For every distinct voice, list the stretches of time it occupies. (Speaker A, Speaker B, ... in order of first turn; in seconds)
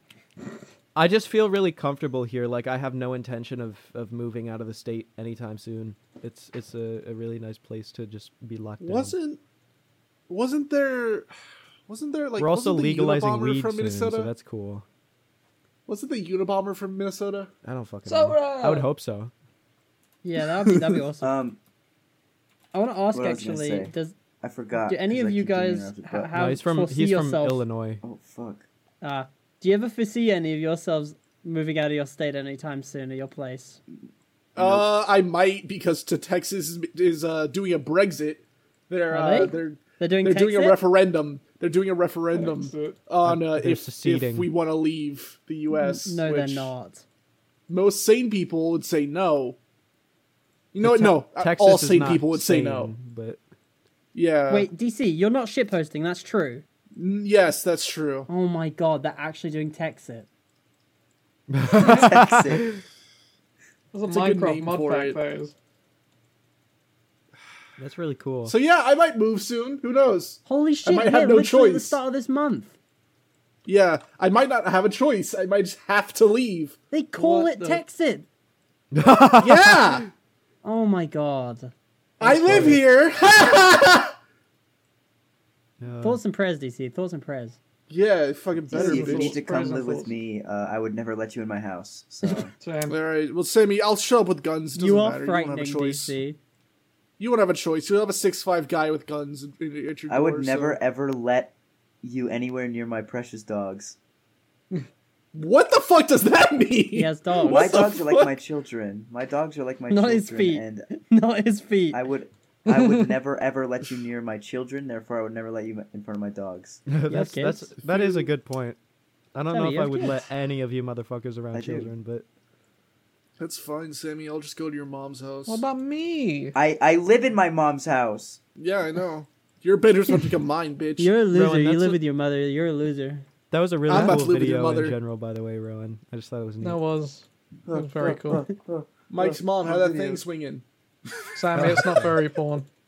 Speaker A: 0.9-9.1, 12.4-14.8, 17.6-19.3, 26.4-28.0, 43.2-44.5, 50.8-53.4, 61.5-62.8, 67.8-68.5, 78.9-80.0, 82.5-82.8, 85.8-86.2, 116.9-118.8, 119.3-122.2, 131.3-132.0, 133.5-136.8, 141.6-142.1
Speaker B: 8.8-9.4, 10.3-11.3, 11.9-14.3, 15.9-17.5, 20.7-20.9, 34.5-46.7, 47.7-49.6, 50.7-52.9, 54.1-54.7, 57.0-58.3, 64.1-65.2, 68.5-72.0, 73.7-77.8, 79.4-80.1, 82.2-84.1, 87.9-89.4, 92.9-96.2, 97.2-100.8, 105.3-108.3, 117.9-118.3, 123.4-125.6, 128.6-131.1, 133.9-135.0, 139.1-140.6
Speaker C: 18.1-18.9, 42.3-43.0, 63.9-65.5, 88.7-90.1, 92.3-93.0, 112.7-113.2, 125.5-126.6, 136.6-138.5, 141.3-142.7
Speaker D: 20.2-21.3, 22.7-24.1, 24.9-27.6, 29.0-33.8, 39.1-40.8, 45.8-47.0, 54.5-56.6, 58.3-60.3, 70.5-72.8, 76.9-78.3, 80.6-82.7, 86.0-87.6, 94.8-96.4, 106.9-107.8, 109.9-112.0, 117.1-117.7, 119.5-120.2, 131.0-133.2, 138.0-138.4
Speaker E: 21.2-21.6, 23.1-26.3, 28.0-28.7, 34.6-34.9, 61.7-62.7, 88.7-92.5, 100.1-104.0, 107.4-110.9, 111.9-116.8, 121.5-121.9, 126.5-128.4, 137.7-140.2